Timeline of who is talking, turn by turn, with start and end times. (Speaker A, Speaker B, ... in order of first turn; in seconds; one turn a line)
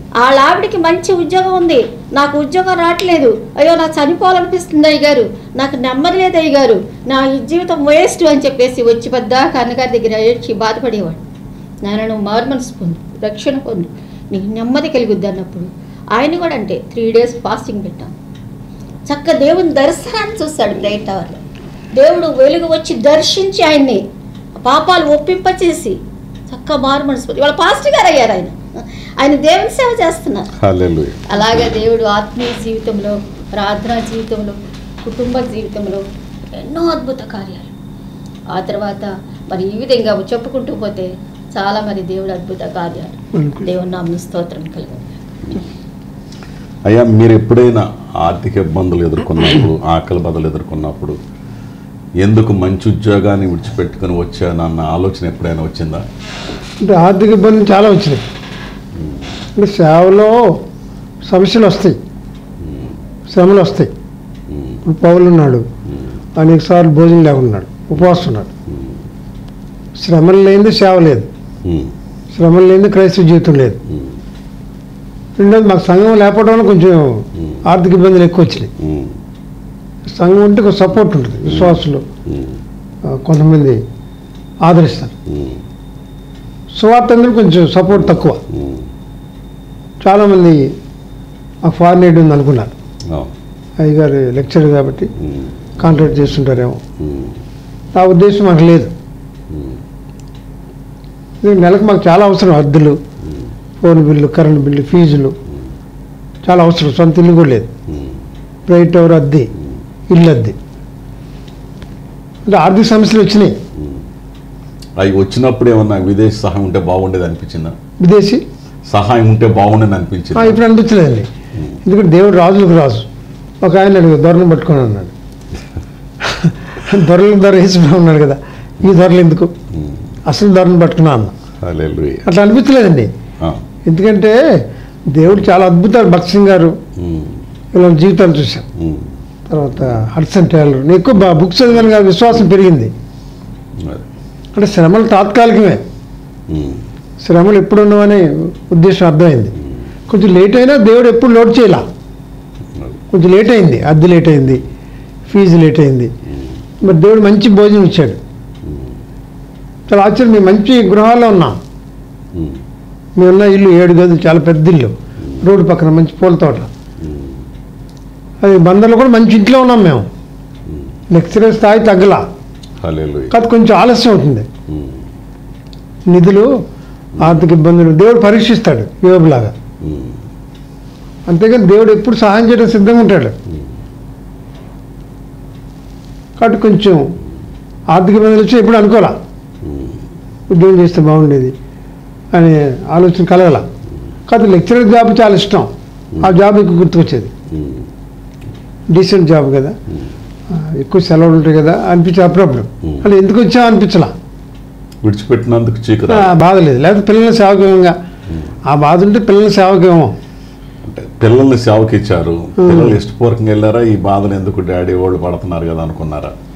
Speaker A: 0.2-11.2
Speaker A: 11.8-18.1
Speaker A: 19.1-21.4
Speaker A: 21.9-24.1
Speaker A: 24.6-30.5
Speaker B: 30.6-31.8
Speaker A: 31.3-36.0
Speaker A: 36.6-37.7
Speaker A: 38.5-45.2
Speaker C: 43.4-43.6
Speaker B: 46.9-51.2
Speaker B: 52.2-56.1
Speaker C: 56.8-58.2
Speaker B: 59.0-59.3
Speaker C: 59.6-60.6
Speaker C: 61.3-62.0
Speaker B: 62.6-62.9
Speaker C: 63.3-63.9
Speaker B: 64.5-64.8
Speaker C: 64.8-65.7
Speaker C: 66.4-68.5
Speaker B: 68.7-69.0
Speaker C: 70.0-71.3
Speaker B: 71.6-71.9
Speaker C: 72.3-73.8
Speaker B: 73.9-74.2
Speaker C: 75.4-78.7
Speaker B: 78.8-79.2
Speaker C: 80.2-82.0
Speaker B: 81.5-82.6
Speaker C: 83.1-83.8
Speaker C: 84.6-85.1
Speaker B: 85.3-85.6
Speaker C: 86.7-88.4
Speaker B: 88.0-88.9
Speaker C: 90.0-90.7
Speaker C: 91.6-92.7
Speaker B: 93.1-93.3
Speaker C: 93.8-95.1
Speaker B: 95.2-95.5
Speaker C: 95.8-96.8
Speaker B: 97.0-97.4
Speaker C: 97.9-98.9
Speaker B: 99.5-99.8
Speaker C: 101.4-103.0
Speaker B: 103.2-103.5
Speaker C: 103.8-105.3
Speaker C: 106.4-107.7
Speaker B: 107.9-108.2
Speaker C: 108.7-109.5
Speaker C: 110.1-110.6
Speaker C: 112.5-113.6
Speaker B: 113.8-114.0
Speaker B: 115.0-117.8
Speaker C: 118.0-118.4
Speaker B: 118.9-120.6
Speaker C: 120.3-121.3
Speaker C: 121.8-123.1
Speaker C: 123.6-125.1
Speaker C: 126.2-129.5
Speaker B: 129.7-130.0
Speaker C: 130.3-131.3
Speaker B: 131.6-132.3
Speaker C: 132.2-133.1
Speaker C: 133.8-136.8
Speaker B: 137.0-137.4
Speaker C: 137.7-138.7
Speaker B: 138.8-139.2
Speaker C: 139.5-142.9
Speaker B: 143.8-144.1
Speaker C: 144.6-145.8
Speaker B: 146.5-146.9
Speaker C: 147.2-149.6
Speaker C: 150.1-151.8
Speaker C: 153.1-154.7
Speaker C: 155.3-156.1
Speaker C: 156.8-158.2
Speaker B: 158.6-158.9
Speaker C: 159.9-161.6
Speaker B: 162.3-162.6
Speaker C: 163.2-166.7
Speaker B: 167.0-167.4
Speaker C: 168.4-170.1
Speaker C: 171.1-172.3
Speaker B: 172.8-173.3
Speaker C: 173.3-174.5
Speaker B: 174.7-175.0
Speaker C: 176.1-176.5
Speaker B: 177.2-177.4
Speaker C: 177.2-179.5
Speaker B: 179.8-180.2
Speaker C: 181.3-183.4
Speaker C: 186.4-187.1
Speaker C: 187.9-189.2
Speaker B: 189.6-190.0
Speaker C: 190.5-191.5
Speaker C: 192.3-193.7
Speaker C: 194.3-197.3
Speaker B: 197.5-197.9
Speaker C: 198.9-199.8
Speaker C: 200.5-204.1
Speaker B: 205.0-206.3
Speaker C: 206.1-208.0
Speaker B: 208.3-208.5
Speaker C: 208.7-210.1
Speaker B: 210.8-216.3
Speaker C: 212.6-213.0